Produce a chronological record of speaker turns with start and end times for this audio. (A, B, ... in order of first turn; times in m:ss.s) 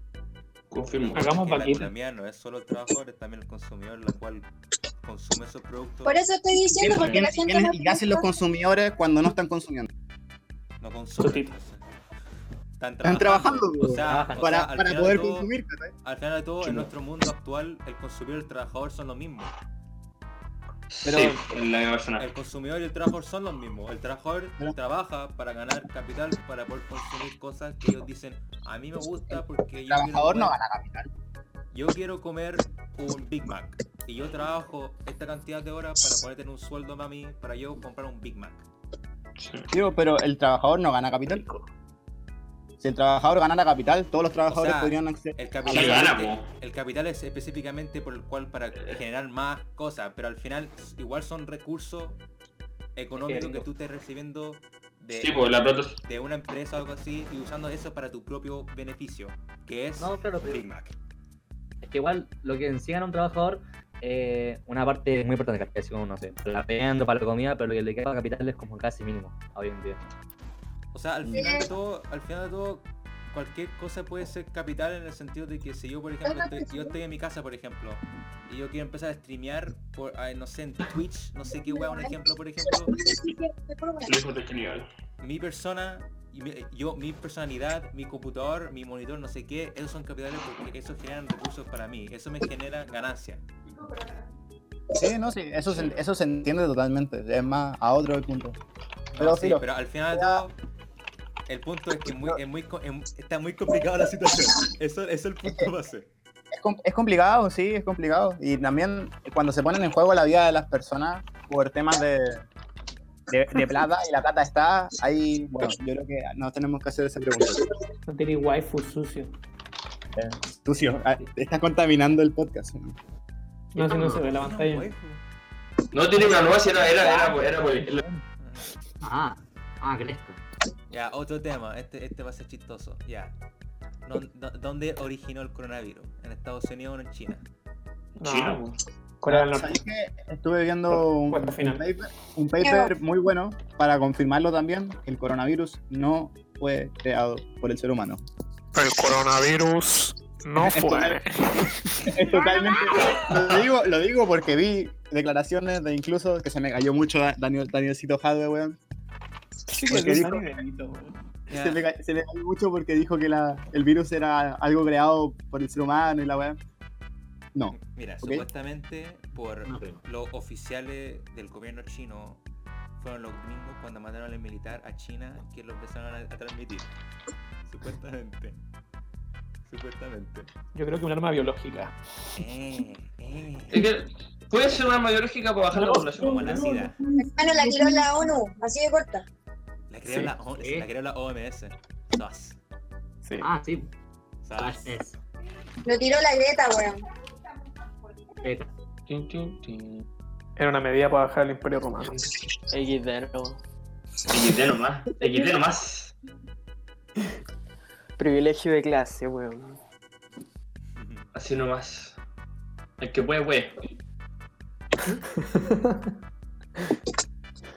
0:00.7-0:01.3 A
0:01.1-0:04.5 B
0:01.2-0:01.9 C
0:05.0-0:06.2 B
0:06.0-0:08.3 D
0:06.6-0:09.9 E
0:06.9-0:07.2 A
0:10.8-0:11.8 B
0:11.2-0:11.6 C
0:12.8-0:15.5 B
0:13.0-0:15.9 E
0:14.0-0:14.6 F
0:16.0-0:19.5 B
0:16.6-0:16.9 E
0:20.9-0:22.3 A
0:21.0-0:21.4 E
0:22.2-0:30.6 B
0:29.3-0:31.1 E
0:31.7-0:38.6 B
0:39.4-0:39.7 A
0:39.7-0:41.4 E
0:42.8-0:46.2 E
0:44.5-0:52.2 B
0:45.7-0:46.5 A
0:53.0-0:55.5 B
0:53.2-0:53.6 C
0:55.2-0:56.0 A
0:56.0-1:00.9 B
1:00.0-1:00.6 F
1:01.8-1:10.1 F
1:10.9-1:23.0 B
1:11.3-1:11.7 D
1:16.2-1:17.0 D
1:21.7-1:22.1 D
1:22.7-1:24.2 D
1:24.0-1:24.9 A
1:25.2-1:33.4 B
1:35.0-1:38.6 E
1:39.1-1:40.6 B
1:39.2-1:40.4 E
1:41.5-1:46.1 B
1:42.1-1:42.4 E
1:45.4-1:45.7 E
1:46.5-1:52.5 E
1:53.3-1:57.7 E
1:58.1-1:59.4 C
2:00.2-2:03.0 E
2:03.7-2:04.9 C
2:03.8-2:05.2 B
2:05.9-2:08.0 A
2:07.0-2:08.2 C
2:08.4-2:08.7 B
2:09.0-2:10.4 F
2:10.9-2:13.3 B
2:14.0-2:17.4 B
2:18.2-2:18.8 A
2:18.2-2:18.6 C
2:19.2-2:19.8 C
2:19.3-2:28.2 E
2:20.9-2:21.8 C
2:22.6-2:22.9 D
2:28.7-2:32.2 C
2:30.6-2:31.2 E
2:32.0-2:38.8 E
2:32.4-2:32.8 D
2:39.7-2:41.1 C
2:39.9-2:40.6 E
2:41.5-2:41.9 B
2:41.5-2:46.6 E
2:47.6-2:48.5 E
2:47.7-2:52.4 B
2:49.6-2:50.0 F
2:53.0-2:56.9 B
2:57.6-2:58.6 B
2:59.6-3:00.5 B
3:00.7-3:01.9 C
3:02.4-3:03.8 B
3:03.7-3:06.7 A
3:05.7-3:08.2 C
3:06.2-3:07.0 B
3:07.2-3:09.2 D
3:09.9-3:12.6 B
3:10.2-3:10.9 F
3:13.2-3:13.5 C
3:13.4-3:13.9 F
3:14.4-3:15.0 B
3:14.6-3:15.2 F
3:15.8-3:17.0 D
3:18.4-3:18.7 F
3:19.1-3:20.0 A
3:20.6-3:22.3 C
3:22.7-3:23.6 G
3:24.3-3:26.1 A
3:28.2-3:29.8 G
3:30.9-3:31.3 B
3:31.4-3:32.2 A
3:33.0-3:33.8 A
3:35.1-3:36.1 C